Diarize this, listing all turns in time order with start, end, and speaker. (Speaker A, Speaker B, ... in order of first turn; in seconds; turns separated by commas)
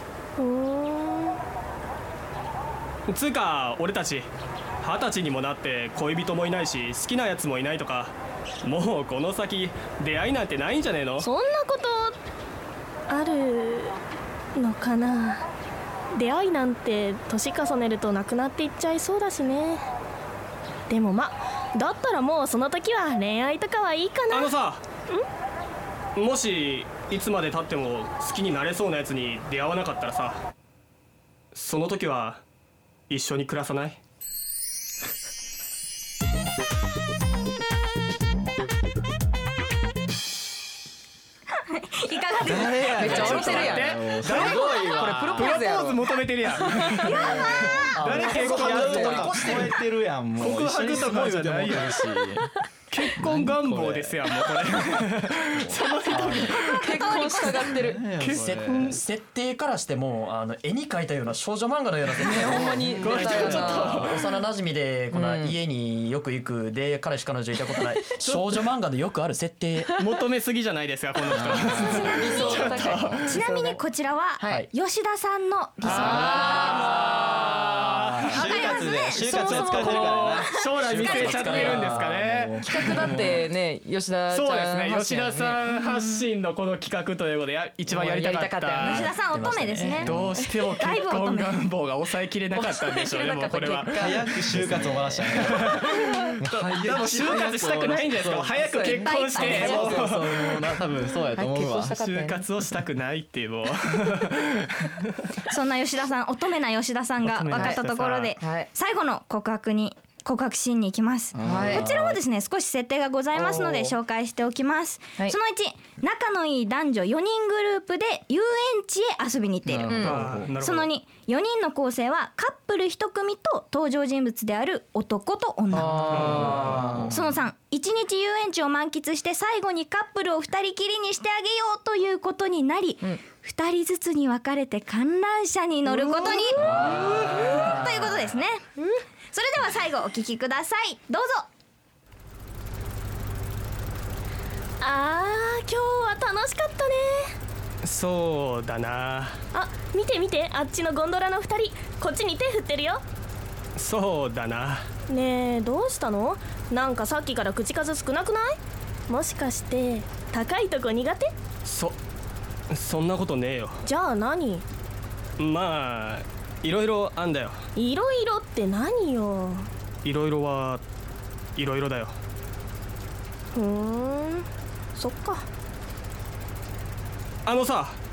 Speaker A: 0.4-1.4, Speaker B: 3.1-4.3, Speaker B: 4.8-11.3, Speaker A: 11.2-12.2, Speaker A: 13.1-14.0, Speaker A: 14.6-15.4, Speaker A: 16.1-19.8, Speaker A: 20.9-24.5, Speaker B: 24.3-24.8, Speaker B: 26.1-30.4, Speaker B: 31.5-32.4, Speaker B: 33.1-34.0, Speaker C: 41.7-43.7, Speaker D: 42.4-45.5, Speaker E: 42.8-46.0, Speaker B: 43.4-47.2, Speaker C: 44.3-44.7, Speaker E: 46.6-47.9, Speaker C: 47.0-48.1, Speaker F: 47.9-49.8, Speaker B: 48.0-49.7, Speaker D: 48.2-52.4, Speaker B: 50.4-52.0, Speaker B: 52.9-56.9, Speaker D: 53.2-54.4, Speaker F: 56.1-56.6, Speaker C: 56.4-57.8, Speaker E: 56.6-58.0, Speaker D: 57.7-59.0, Speaker B: 58.2-58.5, Speaker F: 58.4-70.0, Speaker E: 62.2-64.1, Speaker D: 62.7-63.7, Speaker B: 63.0-64.2, Speaker E: 65.1-65.6, Speaker B: 70.0-73.4, Speaker D: 71.3-72.2, Speaker E: 71.4-73.8, Speaker C: 71.7-76.8, Speaker E: 74.4-74.7, Speaker E: 75.8-77.2, Speaker B: 75.9-78.6, Speaker D: 76.8-83.5, Speaker C: 78.3-81.7, Speaker E: 79.4-80.1, Speaker B: 79.4-82.6, Speaker F: 81.0-83.0, Speaker E: 82.6-85.6, Speaker B: 84.3-89.1, Speaker C: 85.8-86.2, Speaker E: 87.9-89.1, Speaker C: 88.8-90.1, Speaker F: 89.2-90.3, Speaker B: 90.0-94.2, Speaker C: 90.7-91.6, Speaker E: 92.5-94.1, Speaker D: 93.9-102.0, Speaker F: 94.5-95.6, Speaker B: 95.4-100.7, Speaker E: 98.5-100.1, Speaker C: 98.8-99.7, Speaker E: 101.3-102.5, Speaker B: 101.9-105.1, Speaker C: 105.5-120.0, Speaker B: 107.2-108.4, Speaker E: 107.5-107.8, Speaker E: 108.4-108.7, Speaker D: 111.3-112.2, Speaker E: 111.4-111.9, Speaker E: 113.3-113.9, Speaker D: 119.6-120.5, Speaker E: 119.8-120.3, Speaker B: 120.0-120.9, Speaker C: 120.6-126.5, Speaker E: 125.7-127.1, Speaker B: 126.1-126.9, Speaker D: 126.3-127.4, Speaker C: 127.1-138.8, Speaker A: 135.9-136.6, Speaker D: 136.5-138.1, Speaker C: 139.3-141.4, Speaker A: 144.8-147.3, Speaker B: 147.8-149.4, Speaker A: 149.5-153.0, Speaker B: 153.8-154.9, Speaker A: 155.1-158.6, Speaker A: 159.1-161.3, Speaker B: 161.6-162.0, Speaker B: 162.7-163.8, Speaker A: 163.8-164.6, Speaker B: 165.4-167.6, Speaker A: 167.8-169.7, Speaker B: 170.0-170.8, Speaker B: 171.6-172.2, Speaker A: 173.5-175.4, Speaker B: 177.4-178.0